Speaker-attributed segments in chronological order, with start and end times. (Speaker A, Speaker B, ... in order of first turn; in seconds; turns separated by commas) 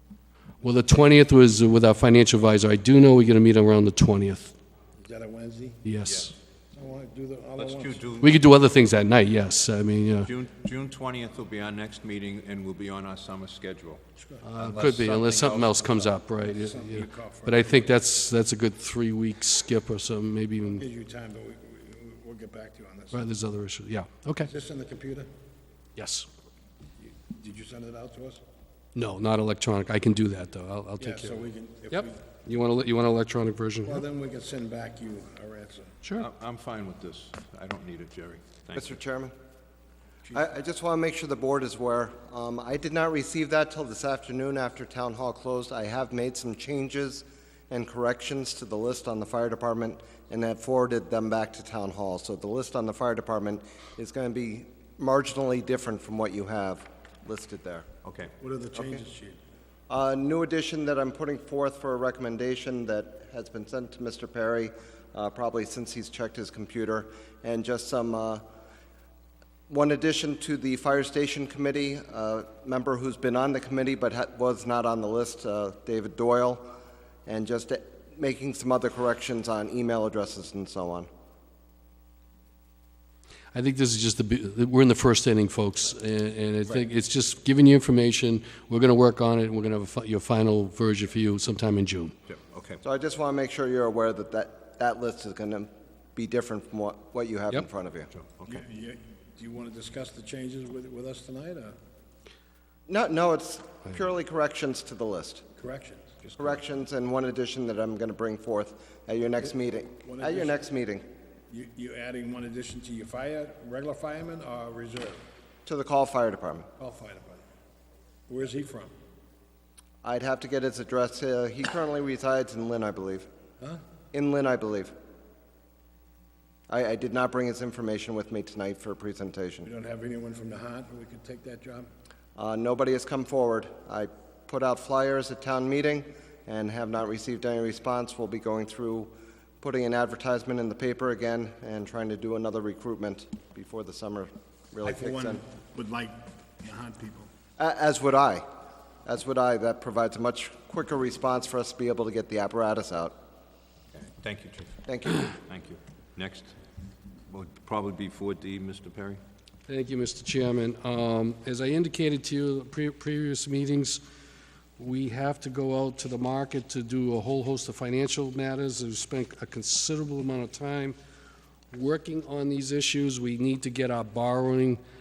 Speaker A: 0.6-4.5, Speaker B: 5.0-5.8, Speaker A: 5.8-6.3, Speaker C: 6.0-6.3, Speaker B: 6.7-8.1, Speaker C: 7.6-8.6, Speaker A: 8.2-10.3, Speaker C: 10.2-14.0, Speaker B: 14.2-14.5, Speaker A: 14.4-20.9, Speaker C: 14.6-16.1, Speaker B: 16.4-17.9, Speaker B: 20.8-23.3, Speaker A: 23.1-24.5, Speaker B: 24.4-25.3, Speaker A: 26.0-26.3, Speaker B: 27.1-28.4, Speaker A: 28.9-34.0, Speaker B: 31.0-32.2, Speaker B: 33.9-36.0, Speaker C: 36.2-39.0, Speaker D: 38.8-39.3, Speaker D: 40.3-57.9, Speaker C: 58.0-58.3, Speaker B: 58.4-59.4, Speaker D: 59.9-68.4, Speaker D: 69.7-76.7, Speaker D: 77.3-81.1, Speaker A: 83.5-92.2, Speaker C: 92.3-92.8, Speaker D: 92.8-98.1, Speaker C: 98.1-98.6, Speaker B: 98.5-101.8, Speaker D: 102.9-105.4, Speaker B: 105.6-106.2, Speaker D: 106.4-111.0, Speaker B: 110.0-110.6, Speaker B: 111.5-115.2, Speaker D: 115.7-116.7, Speaker B: 116.8-117.5, Speaker B: 118.3-118.9, Speaker D: 120.0-123.3, Speaker D: 124.1-124.9, Speaker D: 126.7-129.7, Speaker B: 129.7-131.9, Speaker D: 132.4-145.4, Speaker B: 144.8-147.3, Speaker D: 147.6-148.4, Speaker D: 149.1-153.2, Speaker C: 153.9-154.8, Speaker D: 154.9-155.3, Speaker C: 155.3-156.6, Speaker C: 157.3-159.2, Speaker A: 159.7-164.0, Speaker A: 164.8-171.0, Speaker A: 171.7-174.8